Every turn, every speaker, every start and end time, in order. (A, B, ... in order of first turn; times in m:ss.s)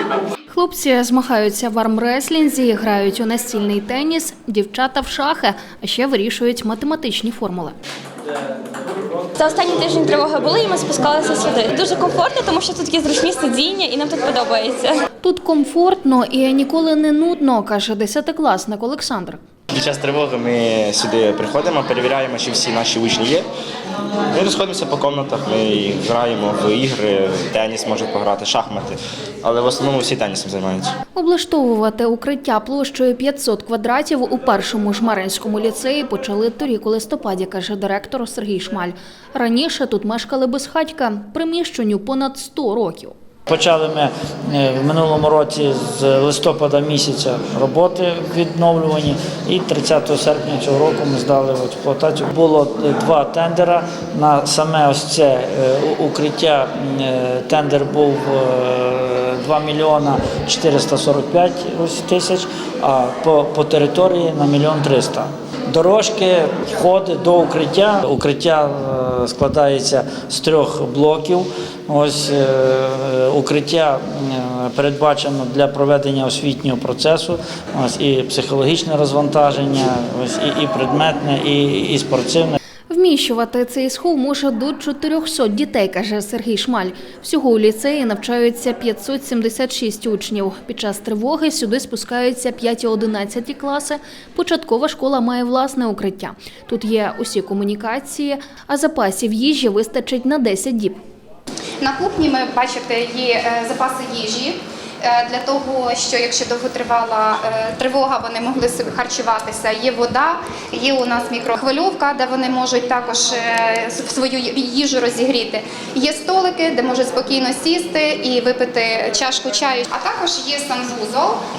0:00.5-0:07.8 A
0:09.4-0:14.9 B
0:15.2-0:19.4 A
0:19.7-0:23.5 C
0:24.3-0:30.9 C
0:31.2-0:43.2 A
0:43.5-1:22.6 D
1:22.9-1:41.0 A
1:41.8-2:01.4 E